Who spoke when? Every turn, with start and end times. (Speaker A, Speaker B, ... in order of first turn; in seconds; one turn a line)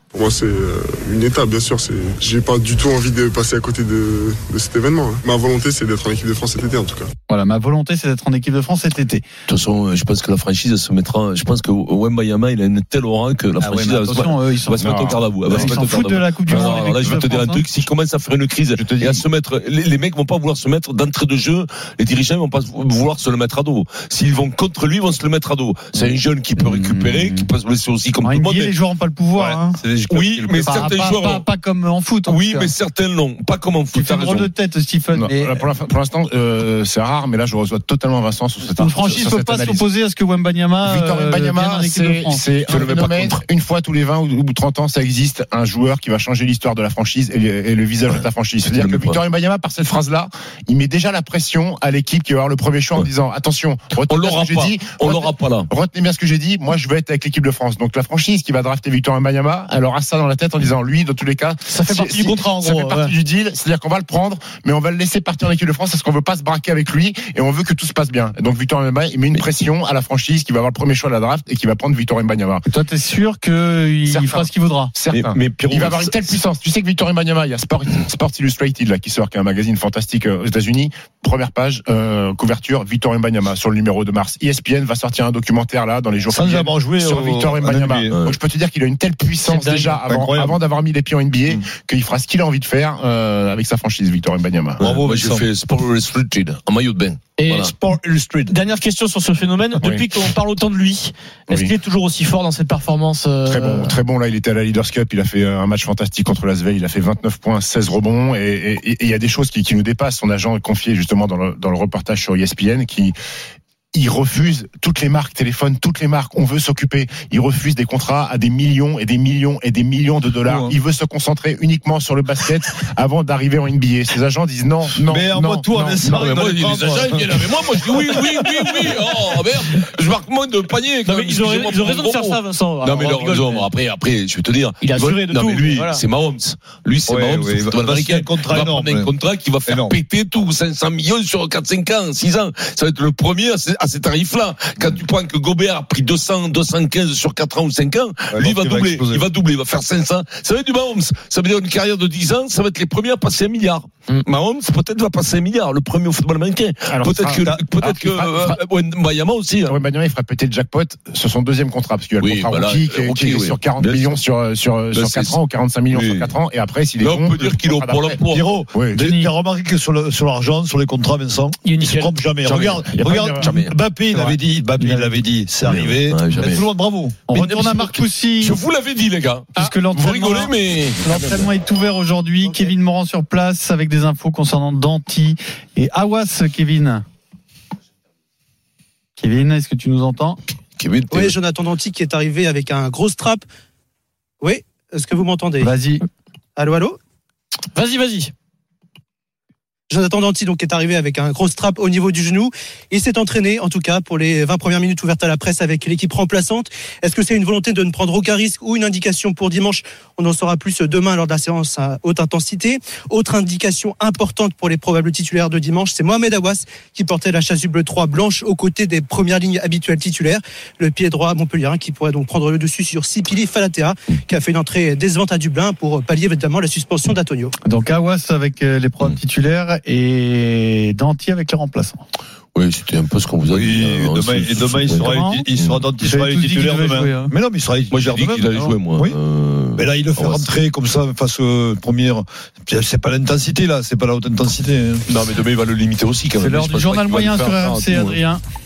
Speaker A: 0.1-7.1
Speaker B: 7.3-9.2
Speaker C: 9.5-28.7
Speaker B: 13.6-17.6
Speaker D: 14.8-15.9
Speaker D: 16.7-17.1
Speaker D: 18.8-19.2
Speaker B: 26.6-27.5
Speaker B: 28.2-29.8
Speaker E: 29.4-31.1
Speaker C: 30.1-31.4
Speaker B: 30.6-32.7
Speaker C: 32.2-34.5
Speaker B: 33.9-35.6
Speaker D: 35.1-39.9
Speaker B: 38.8-42.4
Speaker D: 40.8-72.7
Speaker C: 42.7-43.4
Speaker C: 48.1-49.2
Speaker C: 54.1-55.7
Speaker F: 61.7-63.1
Speaker B: 72.7-74.9
Speaker D: 74.1-94.8
Speaker C: 75.1-76.4
Speaker E: 86.3-88.2
Speaker F: 89.5-90.0
Speaker E: 90.0-90.6
Speaker E: 94.8-95.5
Speaker C: 94.8-97.7
Speaker F: 97.4-97.7
Speaker E: 97.6-98.5
Speaker F: 98.5-104.0
Speaker D: 99.8-100.1
Speaker D: 101.5-101.7
Speaker D: 103.5-113.1
Speaker D: 113.9-126.0
Speaker E: 120.4-120.8
Speaker E: 125.1-129.1
Speaker C: 126.0-159.8
Speaker F: 131.1-133.7
Speaker F: 134.8-136.1
Speaker E: 137.1-139.1
Speaker E: 139.7-140.0
Speaker E: 148.3-149.3
Speaker D: 156.9-157.5
Speaker E: 157.4-158.5
Speaker D: 159.7-169.1
Speaker C: 162.2-164.2
Speaker C: 164.9-166.4
Speaker C: 167.0-168.5
Speaker E: 168.3-177.2
Speaker B: 168.9-169.3
Speaker F: 171.6-172.2
Speaker D: 172.4-173.6
Speaker C: 173.4-173.7
Speaker B: 174.1-175.2
Speaker C: 175.6-176.7
Speaker B: 177.3-178.6
Speaker C: 177.3-181.5
Speaker B: 179.6-187.0
Speaker G: 182.4-182.7
Speaker B: 189.2-190.4
Speaker C: 190.8-191.4
Speaker G: 191.1-193.4
Speaker G: 194.4-195.7
Speaker B: 195.6-196.0
Speaker G: 196.6-197.0
Speaker F: 197.7-198.3
Speaker G: 199.9-227.5
Speaker B: 227.6-232.0
Speaker C: 232.6-235.8
Speaker E: 233.5-239.2
Speaker B: 235.0-235.4
Speaker B: 236.0-237.3
Speaker C: 237.9-240.5
Speaker E: 239.8-245.1
Speaker C: 245.1-248.2
Speaker B: 246.4-248.4